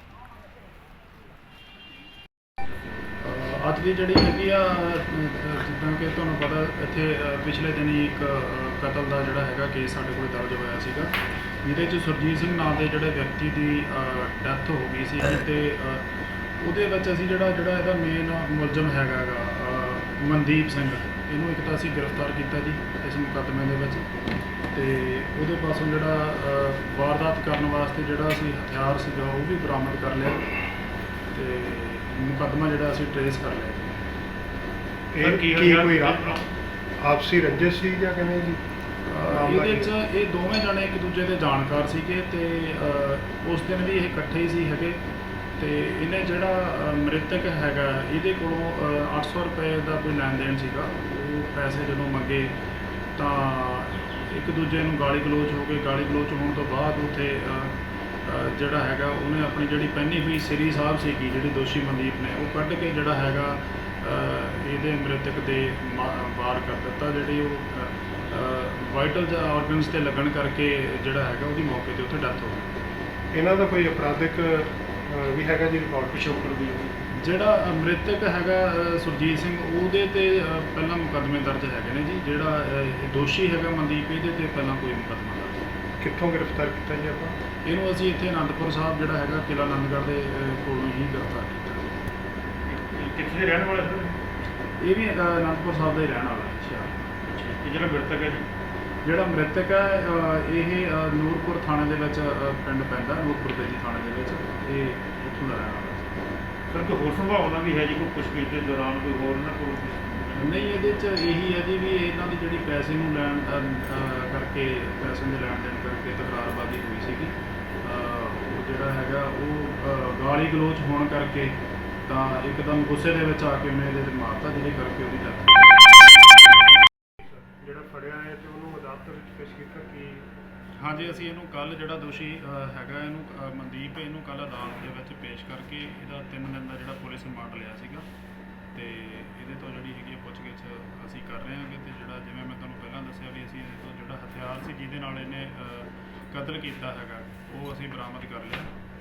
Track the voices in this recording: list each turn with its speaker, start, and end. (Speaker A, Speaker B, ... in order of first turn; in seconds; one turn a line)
Speaker A: 3.2-24.1
Speaker A: 24.7-30.5
Speaker A: 31.3-34.0
Speaker B: 35.1-36.4
Speaker C: 35.2-36.5
Speaker B: 37.0-38.6
Speaker A: 39.0-45.0
Speaker B: 39.2-39.9
Speaker A: 45.6-52.6
Speaker A: 53.1-72.7
Speaker B: 73.3-76.6
Speaker C: 76.4-76.9
Speaker A: 77.1-85.7
Speaker B: 86.0-87.4
Speaker A: 87.6-92.0
Speaker C: 92.7-94.2
Speaker A: 94.8-97.0
Speaker C: 97.2-98.5
Speaker A: 99.0-106.2
Speaker C: 106.7-111.0
Speaker A: 110.4-125.8
Speaker B: 127.2-130.3
Speaker A: 130.8-138.1
Speaker A: 138.7-148.7